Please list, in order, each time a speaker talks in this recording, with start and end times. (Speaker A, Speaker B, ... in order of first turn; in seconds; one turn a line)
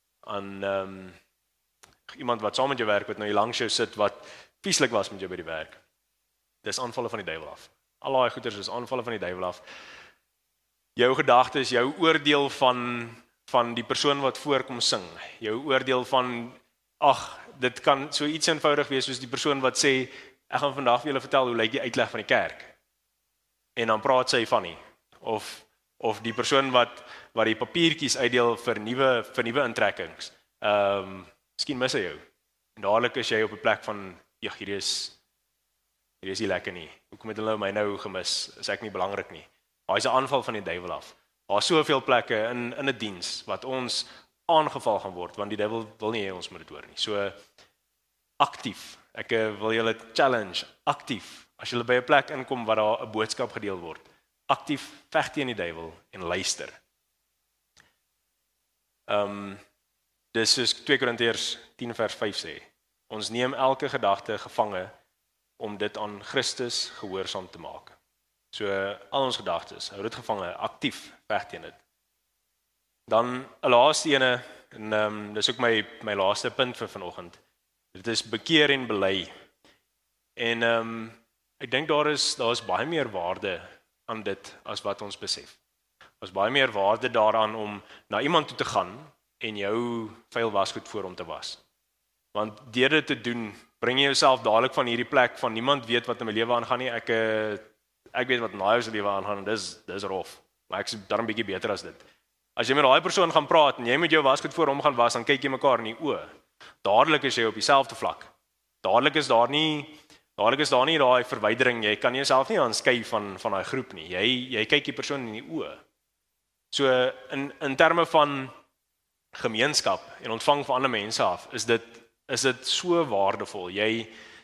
Speaker A: 0.2-1.2
Speaker A: 2.1-5.8
Speaker A: 6.6-9.6
Speaker A: 11.0-22.7
Speaker A: 23.8-32.2
Speaker A: 32.8-35.2
Speaker A: 36.2-47.4
Speaker A: 48.4-56.8
Speaker A: 59.1-59.6
Speaker A: 60.3-64.9
Speaker A: 65.6-68.0
Speaker A: 68.5-71.8
Speaker A: 73.1-77.4
Speaker A: 77.9-79.3
Speaker A: 80.4-85.6
Speaker A: 86.2-91.6
Speaker A: 92.3-102.0
Speaker A: 102.6-106.3
Speaker A: 106.8-108.3
Speaker A: 108.8-115.8
Speaker A: 116.7-118.5
Speaker A: 119.3-124.1